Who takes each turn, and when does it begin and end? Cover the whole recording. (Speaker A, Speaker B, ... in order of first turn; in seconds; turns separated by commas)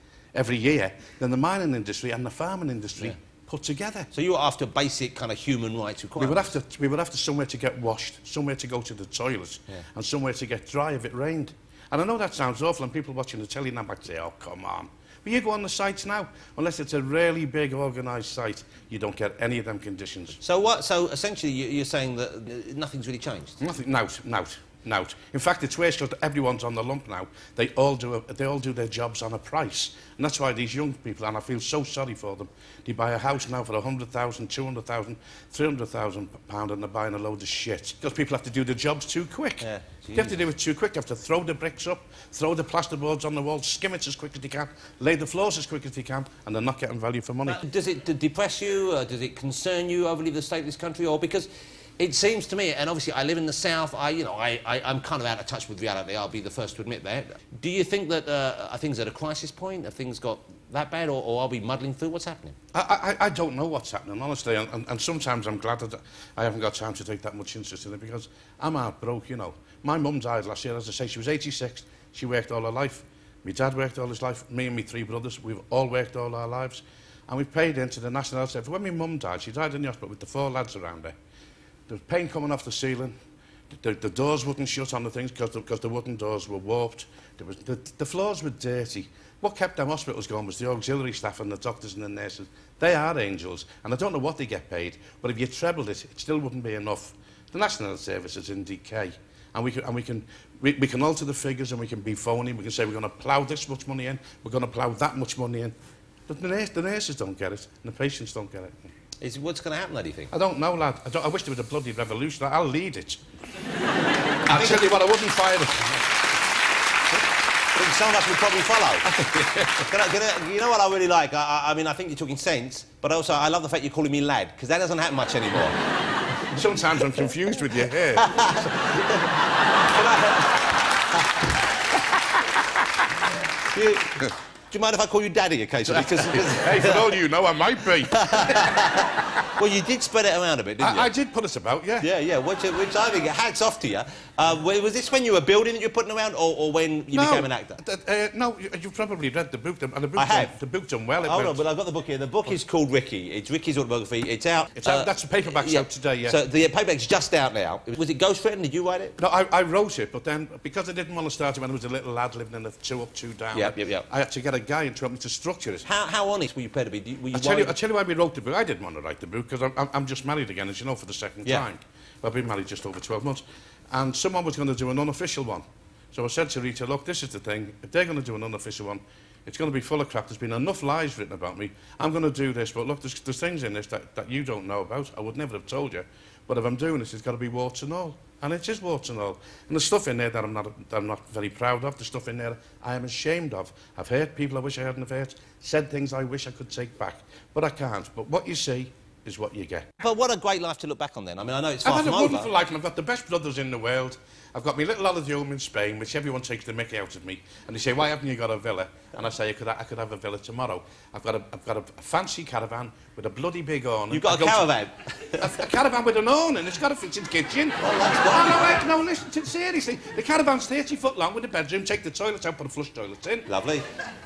Speaker A: 0.3-4.1, Speaker B: 4.1-6.5, Speaker A: 6.2-20.4, Speaker B: 20.4-23.6, Speaker A: 23.6-39.6, Speaker B: 39.6-40.4, Speaker A: 40.1-47.6, Speaker B: 47.5-51.5, Speaker B: 52.0-62.5, Speaker A: 62.7-81.1, Speaker A: 81.9-83.1, Speaker A: 83.7-105.7, Speaker A: 106.3-108.9, Speaker B: 109.2-110.3, Speaker A: 110.3-113.2, Speaker A: 114.5-116.1, Speaker B: 114.5-114.8, Speaker B: 117.8-125.8, Speaker A: 119.1-119.9, Speaker A: 126.5-128.5, Speaker B: 128.2-130.6, Speaker B: 133.6-137.1, Speaker A: 135.8-139.1, Speaker B: 138.1-141.1, Speaker A: 140.8-142.1, Speaker B: 142.0-147.8, Speaker A: 147.1-151.6, Speaker B: 150.2-150.5, Speaker B: 151.2-159.2, Speaker A: 154.8-156.4, Speaker A: 159.2-165.9, Speaker B: 163.5-164.1, Speaker B: 165.8-167.8, Speaker A: 167.3-199.9, Speaker B: 200.0-202.5, Speaker A: 201.8-214.7, Speaker B: 214.1-215.6, Speaker A: 215.4-223.5, Speaker B: 217.8-218.8, Speaker B: 223.5-223.9